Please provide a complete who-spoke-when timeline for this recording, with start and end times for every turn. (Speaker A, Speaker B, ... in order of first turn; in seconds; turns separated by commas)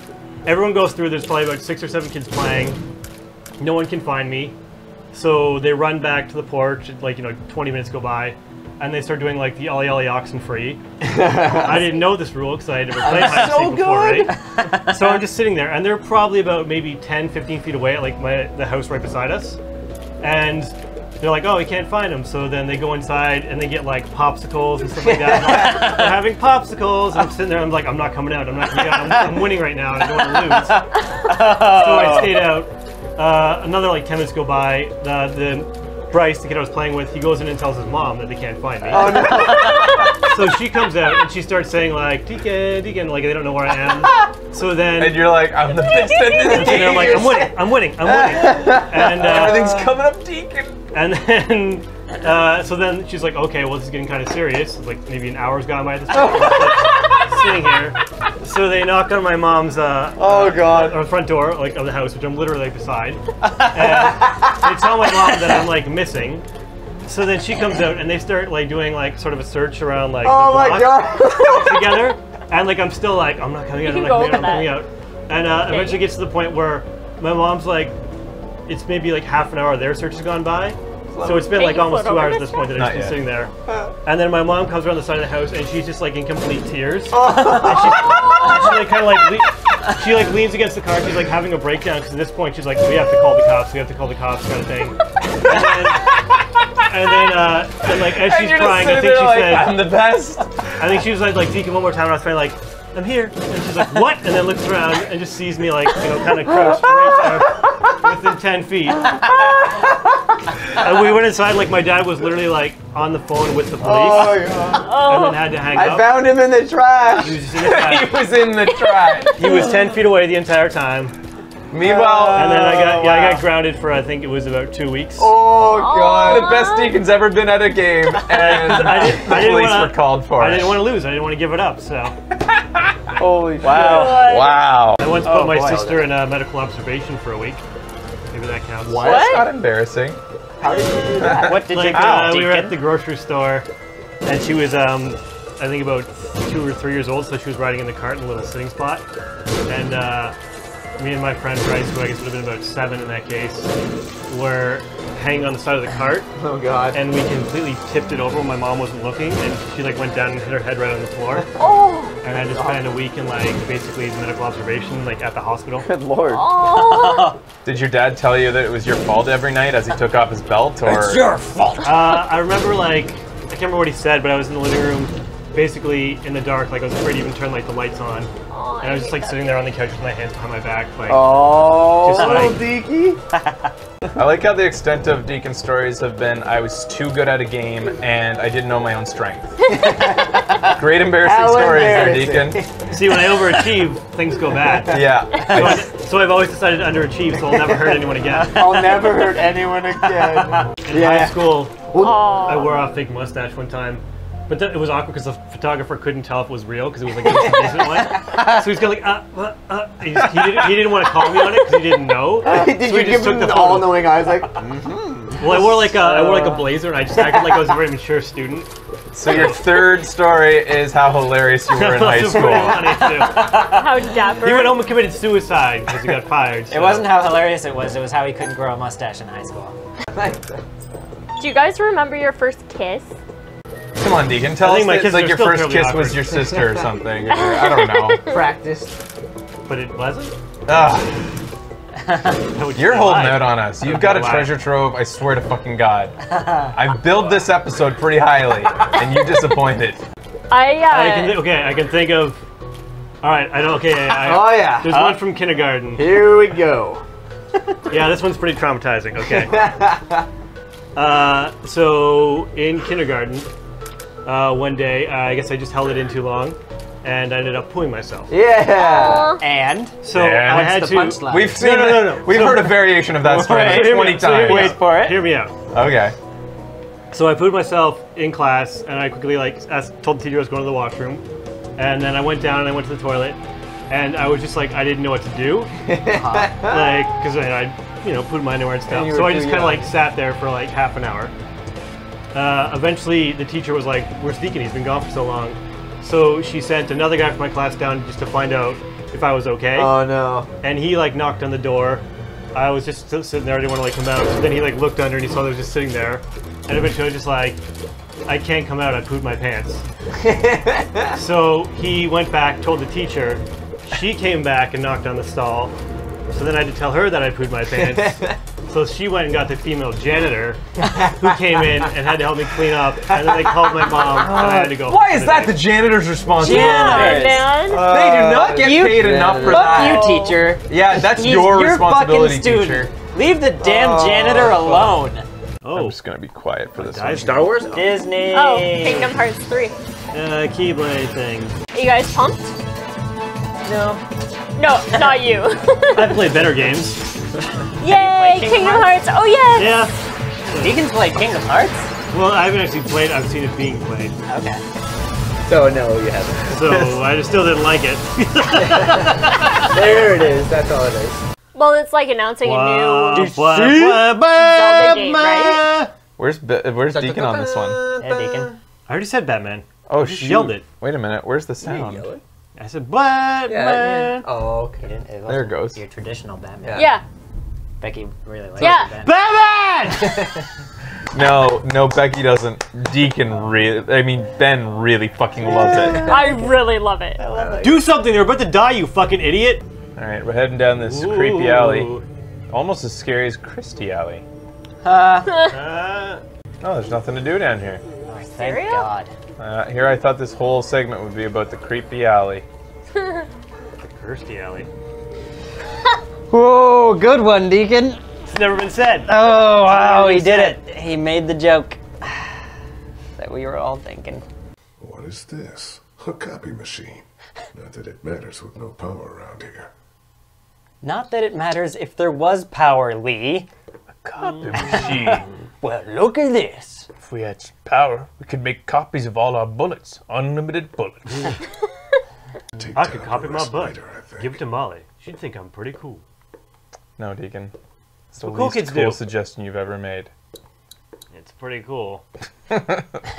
Speaker A: 0.4-2.8, Speaker A: 3.6-4.5, Speaker A: 5.1-10.8, Speaker B: 11.0-11.9, Speaker A: 11.5-19.6, Speaker B: 13.0-14.3, Speaker C: 14.5-15.0, Speaker A: 20.2-30.8, Speaker B: 25.0-25.9, Speaker C: 25.5-26.1, Speaker C: 30.6-32.6, Speaker A: 31.6-39.3, Speaker B: 38.8-40.1, Speaker D: 39.6-40.2, Speaker A: 40.2-45.5, Speaker E: 44.9-47.3, Speaker D: 45.7-46.5, Speaker B: 46.3-47.5, Speaker A: 46.5-49.8, Speaker B: 48.3-50.0, Speaker E: 48.5-50.8, Speaker A: 50.9-66.4, Speaker B: 56.1-56.9, Speaker B: 60.2-61.0, Speaker B: 63.6-65.3, Speaker A: 67.1-77.9, Speaker B: 70.2-72.1, Speaker D: 73.8-74.8, Speaker D: 75.6-76.1, Speaker A: 78.7-83.5, Speaker B: 81.1-81.5, Speaker D: 81.3-82.8, Speaker E: 82.7-83.3, Speaker A: 84.0-96.1, Speaker B: 87.1-88.8, Speaker E: 95.5-96.8, Speaker A: 96.9-99.8, Speaker E: 97.9-100.6, Speaker A: 100.8-109.1, Speaker B: 106.5-107.7, Speaker B: 109.1-110.0, Speaker A: 110.8-116.2, Speaker B: 113.8-114.9, Speaker D: 114.8-115.5, Speaker B: 115.7-117.5, Speaker A: 117.1-118.3, Speaker E: 117.6-119.4, Speaker D: 118.7-119.3, Speaker A: 119.4-121.1, Speaker B: 119.4-119.9, Speaker E: 121.7-122.8, Speaker B: 121.8-123.4, Speaker A: 122.3-125.3, Speaker B: 125.2-126.5, Speaker D: 125.6-127.1, Speaker E: 126.2-130.8, Speaker A: 128.2-132.1, Speaker E: 132.4-132.9, Speaker B: 133.2-134.3, Speaker E: 133.6-135.1, Speaker D: 133.7-134.8, Speaker A: 135.0-137.6, Speaker C: 135.2-136.1, Speaker A: 138.3-139.1, Speaker E: 138.8-140.2, Speaker B: 138.9-139.4, Speaker D: 139.0-139.5, Speaker B: 140.6-141.6, Speaker E: 141.1-142.4, Speaker C: 141.2-142.8, Speaker A: 141.7-143.7, Speaker A: 144.2-149.1, Speaker A: 149.7-150.3, Speaker A: 151.0-153.7, Speaker A: 154.3-156.3, Speaker B: 156.3-157.0, Speaker A: 156.9-161.5, Speaker D: 161.5-162.2, Speaker A: 162.2-165.9, Speaker B: 162.3-162.8, Speaker B: 165.8-166.4, Speaker D: 166.2-167.4, Speaker C: 166.6-167.4, Speaker E: 167.6-171.3, Speaker B: 170.8-171.7, Speaker C: 171.1-171.8, Speaker A: 171.8-178.3, Speaker D: 178.5-179.7, Speaker A: 178.8-182.6, Speaker B: 181.1-183.2, Speaker C: 183.3-183.7, Speaker E: 184.1-189.7, Speaker B: 189.7-193.3, Speaker E: 190.8-192.6, Speaker A: 192.9-198.7, Speaker E: 194.9-195.9, Speaker B: 197.6-202.3, Speaker A: 200.8-214.1, Speaker D: 201.9-202.8, Speaker B: 207.2-208.1, Speaker B: 212.4-216.0, Speaker A: 215.4-218.7, Speaker C: 216.0-216.7, Speaker B: 217.1-217.5, Speaker E: 219.1-223.0, Speaker A: 219.2-219.6, Speaker A: 221.7-223.8, Speaker C: 222.5-223.9, Speaker D: 223.5-224.9, Speaker A: 224.4-227.1, Speaker C: 226.7-229.8, Speaker B: 230.1-230.6, Speaker D: 231.4-233.2, Speaker E: 234.0-238.2, Speaker A: 234.6-236.4, Speaker D: 237.2-238.5, Speaker B: 238.2-238.9, Speaker A: 239.7-240.3, Speaker E: 240.7-241.3, Speaker C: 242.1-242.3, Speaker A: 242.5-244.6, Speaker E: 242.7-246.2, Speaker C: 246.3-246.8, Speaker E: 246.7-250.0, Speaker D: 250.5-251.4, Speaker A: 250.9-252.4, Speaker A: 253.2-256.3, Speaker B: 254.0-255.2, Speaker B: 255.9-257.0, Speaker A: 257.9-259.8, Speaker B: 259.2-260.3, Speaker A: 260.9-263.5, Speaker A: 264.2-268.3, Speaker B: 268.3-269.3, Speaker D: 268.7-269.4, Speaker C: 269.4-269.9, Speaker A: 270.0-275.6, Speaker E: 270.1-274.8, Speaker C: 270.8-271.1, Speaker B: 271.0-271.5, Speaker C: 273.2-275.2, Speaker E: 275.7-276.1, Speaker A: 277.1-281.2, Speaker A: 281.8-285.7, Speaker B: 285.9-287.1, Speaker C: 286.1-286.5, Speaker A: 286.6-291.3, Speaker B: 288.9-289.9, Speaker A: 292.3-300.0, Speaker B: 299.7-300.5, Speaker A: 300.6-307.6, Speaker A: 308.2-309.8, Speaker B: 310.2-311.2, Speaker A: 311.1-315.8, Speaker A: 316.3-320.6, Speaker B: 317.7-318.4, Speaker B: 320.8-321.9, Speaker A: 321.1-325.6, Speaker B: 323.1-324.3, Speaker E: 324.1-330.0, Speaker D: 326.4-327.9, Speaker C: 326.4-327.5, Speaker B: 327.0-330.1, Speaker C: 328.5-335.2, Speaker D: 329.8-330.5, Speaker E: 330.7-332.9, Speaker B: 333.6-334.7, Speaker E: 334.6-334.9, Speaker A: 335.6-336.0, Speaker E: 335.7-337.5, Speaker A: 336.8-337.6, Speaker B: 337.2-337.9, Speaker C: 337.7-339.1, Speaker D: 338.3-339.8, Speaker A: 340.1-341.6, Speaker D: 341.7-342.5, Speaker C: 343.6-344.0, Speaker D: 344.6-346.3, Speaker A: 345.9-347.1, Speaker D: 347.8-349.9, Speaker C: 347.8-349.0, Speaker A: 349.6-349.9, Speaker C: 350.5-351.9, Speaker A: 352.1-354.1, Speaker C: 354.3-354.6, Speaker B: 355.4-356.9, Speaker A: 356.5-359.7, Speaker B: 359.6-361.2, Speaker D: 361.5-363.4, Speaker A: 362.4-365.9, Speaker C: 363.1-364.1, Speaker D: 364.3-365.7, Speaker E: 366.2-367.8, Speaker B: 366.9-368.5, Speaker C: 368.0-368.5, Speaker A: 368.9-370.6, Speaker E: 369.9-372.1, Speaker B: 371.6-372.2, Speaker A: 372.6-374.2, Speaker B: 373.5-374.9, Speaker C: 374.8-376.9, Speaker E: 375.3-375.8, Speaker B: 376.6-376.9, Speaker D: 376.7-377.0, Speaker C: 377.8-379.2, Speaker D: 378.6-378.9, Speaker A: 379.0-380.3, Speaker E: 381.1-386.1, Speaker B: 385.7-385.9, Speaker D: 385.9-387.2, Speaker A: 387.2-389.6, Speaker B: 387.2-387.8, Speaker E: 390.0-391.9, Speaker A: 390.9-392.0, Speaker E: 392.5-394.2, Speaker C: 394.8-395.3, Speaker D: 395.3-395.6, Speaker A: 395.5-396.2, Speaker E: 396.6-397.8, Speaker C: 398.1-399.1, Speaker D: 398.4-398.9, Speaker E: 399.4-402.4, Speaker D: 402.9-403.2, Speaker A: 403.9-404.7, Speaker C: 406.3-408.0, Speaker A: 408.2-409.1, Speaker C: 409.1-412.4, Speaker A: 409.7-410.6, Speaker C: 413.2-414.2, Speaker F: 414.8-419.7, Speaker C: 420.8-423.5, Speaker E: 424.0-425.2, Speaker A: 424.2-424.9, Speaker C: 424.5-426.9, Speaker E: 427.0-431.3, Speaker F: 432.6-434.4, Speaker A: 432.7-436.0, Speaker E: 437.0-437.5, Speaker E: 438.1-440.1, Speaker A: 438.2-439.0, Speaker A: 441.1-442.0, Speaker E: 442.5-442.8